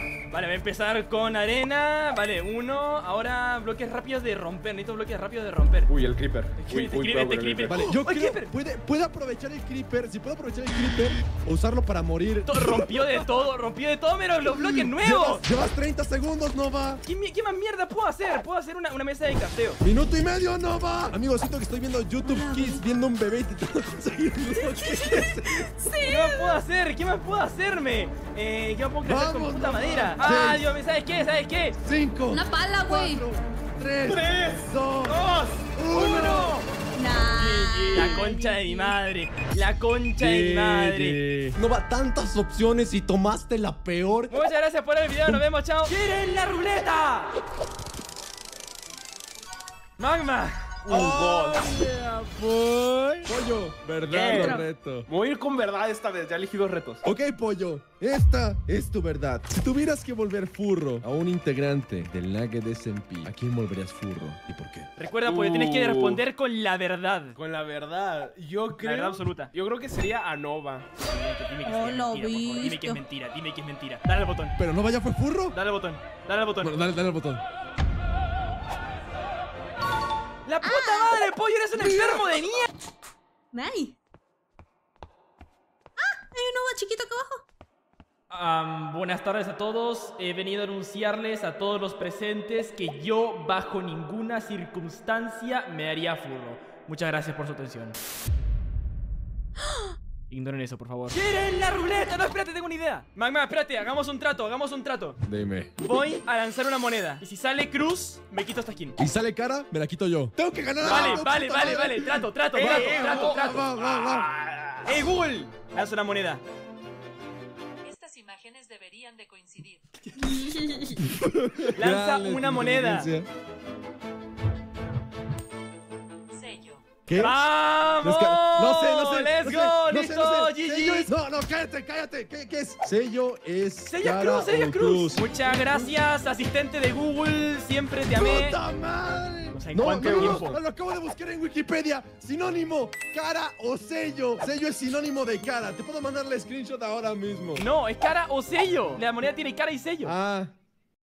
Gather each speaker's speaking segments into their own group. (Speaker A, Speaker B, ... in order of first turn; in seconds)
Speaker A: 0.3-5.9, 6.5-8.5, 12.4-15.4, 17.0-19.8, 26.0-31.7, 36.1-36.6, 37.9-41.2, 44.3-47.3, 50.0-50.8, 65.0-67.4, 68.8-69.5, 71.0-74.5, 75.5-76.7, 80.5-82.7, 88.3-98.0, 100.3-105.2, 105.8-109.0, 110.8-113.7, 114.8-116.4, 120.0-120.5, 121.7-123.1, 127.1-131.1, 133.8-138.6, 139.5-140.6, 147.6-150.1
Speaker B: 5.9-7.9, 34.0-36.6, 37.4-38.2, 50.9-51.7, 54.1-57.0, 65.2-66.2, 67.3-70.9, 110.8-111.2, 112.5-114.9, 140.1-140.4
Speaker C: 7.7-13.2, 14.4-17.0, 19.8-25.7, 29.0-30.7, 31.7-35.2, 35.7-36.5, 40.2-44.4, 50.9-55.1, 57.0-64.9, 74.6-75.6, 76.6-77.4, 105.2-105.7, 109.0-114.3, 121.0-123.3, 127.0-127.5, 128.0-135.9, 138.1-147.6, 150.0-150.5
Speaker D: 22.2-22.8, 24.5-26.6, 32.3-33.2, 36.9-39.0, 54.3-54.6, 71.6-73.0, 80.6-81.2, 81.7-82.6, 83.5-84.0, 86.0-87.4, 120.2-121.0
Speaker E: 117.8-119.8, 126.3-126.8